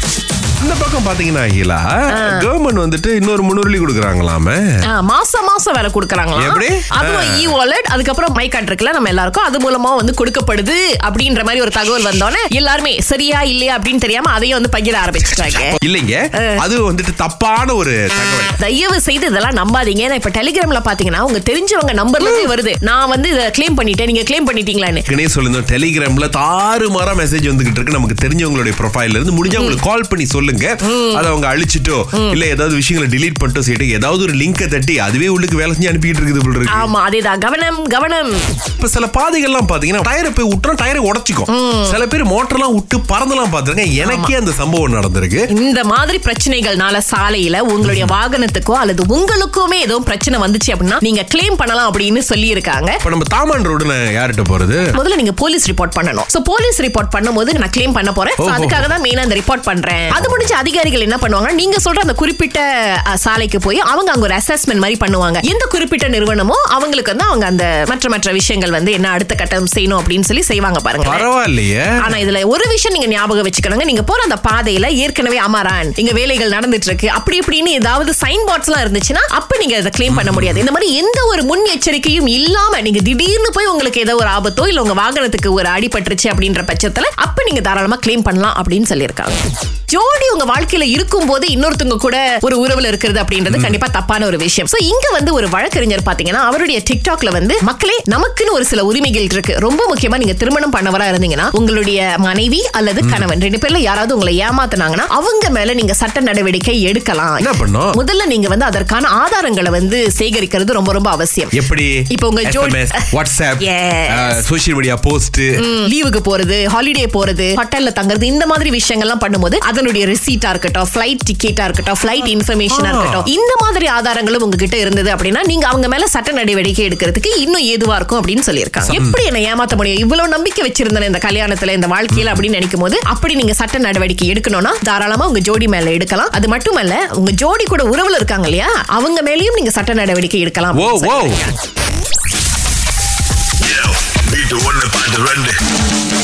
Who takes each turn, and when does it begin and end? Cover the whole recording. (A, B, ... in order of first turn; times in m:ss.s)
0:00.6-0:04.6 A
0:02.1-0:02.5 B
0:04.9-0:15.8 B
0:06.3-0:07.5 A
0:15.7-0:18.5 A
0:18.6-0:25.1 B
0:25.1-0:36.9 A
0:29.5-0:29.8 B
0:30.8-0:31.2 B
0:32.1-0:32.4 B
0:36.7-0:38.4 B
0:38.8-0:45.4 A
0:41.5-0:42.0 B
0:44.0-0:44.3 B
0:45.5-0:53.0 B
0:47.8-0:48.1 A
0:53.0-0:54.8 A
0:54.9-1:11.3 B
0:58.4-0:58.8 A
1:00.1-1:00.5 A
1:11.0-1:12.1 A
1:12.0-1:51.5 B
1:20.1-1:20.6 A
1:33.5-1:33.8 A
1:43.0-1:43.3 A
1:47.4-1:48.0 A
1:51.5-1:51.9 A
1:52.1-1:53.0 B
1:52.4-1:55.5 A
1:53.6-1:54.4 B
1:55.6-2:21.5 B
2:02.7-2:03.2 A
2:08.8-2:09.2 A
2:12.1-2:12.4 A
2:20.7-2:21.4 A
2:24.3-2:25.5 A